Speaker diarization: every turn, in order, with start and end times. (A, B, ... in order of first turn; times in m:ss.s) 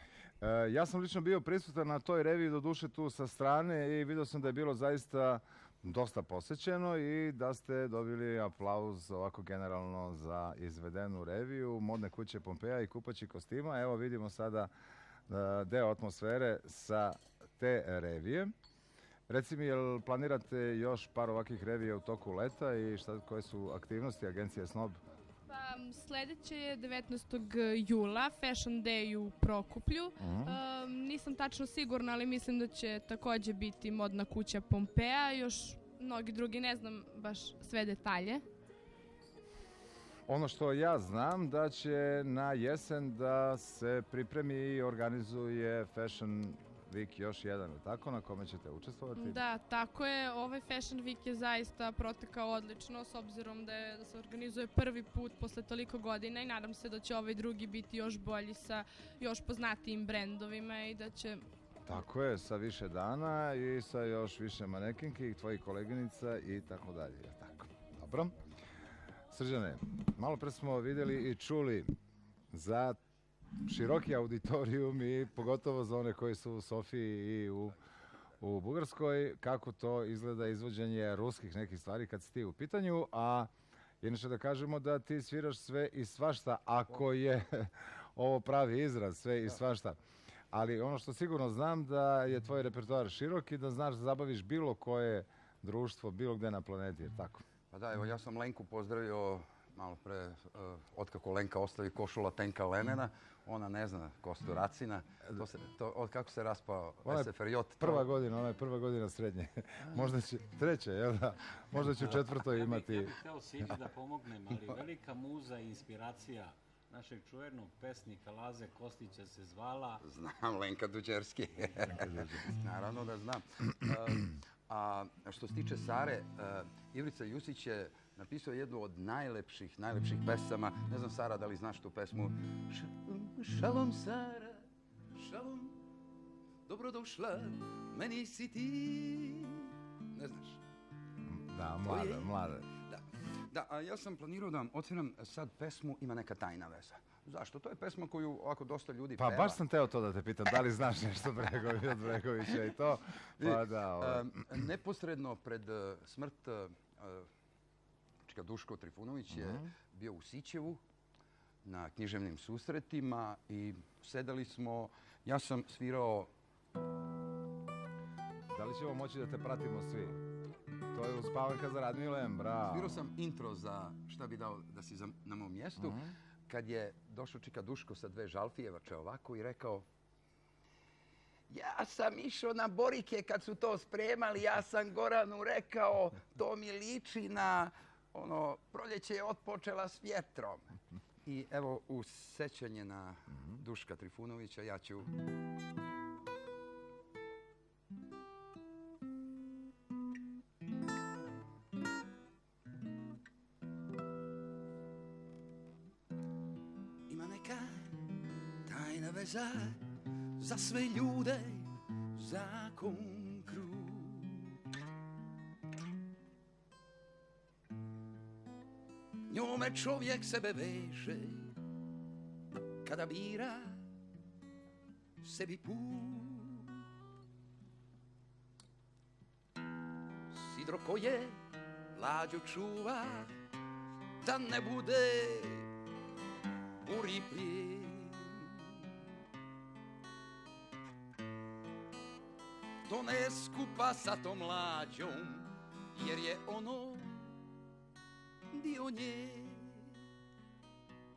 0:00.4-0:14.7 A
0:15.3-0:18.5 A
0:19.3-0:25.0 A
0:25.5-0:38.4 B
0:30.2-0:30.6 A
0:40.3-0:49.4 A
0:49.2-1:01.4 B
1:01.8-1:08.4 A
1:09.3-1:11.9 A
1:12.5-1:13.0 A
1:13.6-1:17.8 A
1:18.4-1:23.5 A
1:24.0-1:30.0 A
1:30.5-1:37.4 A
1:37.7-1:48.0 C
1:47.0-1:53.1 A
1:52.5-2:00.0 D
2:00.0-2:15.8 C
2:02.0-2:02.4 A
2:16.7-2:20.6 C
2:21.2-2:22.6 A
2:21.8-2:29.6 C
2:29.2-2:34.3 A
2:33.4-2:37.3 C
2:38.2-2:40.8 C
2:39.3-2:39.7 A
2:41.6-2:46.3 C
2:48.5-2:50.2 A
2:50.9-2:53.0 A
2:52.7-2:59.8 C
2:55.8-2:56.1 A
3:01.5-3:10.7 C
3:11.2-3:15.2 C
3:27.1-3:28.0 C
3:28.6-3:29.8 C
3:30.4-3:34.5 C
3:39.3-3:41.6 C
3:42.8-3:43.8 C
3:45.2-3:46.8 C
3:50.3-3:51.4 C
3:51.9-3:53.4 C
3:54.2-3:55.7 C
3:56.8-3:58.6 C
4:02.9-4:07.3 C
4:08.5-4:10.0 C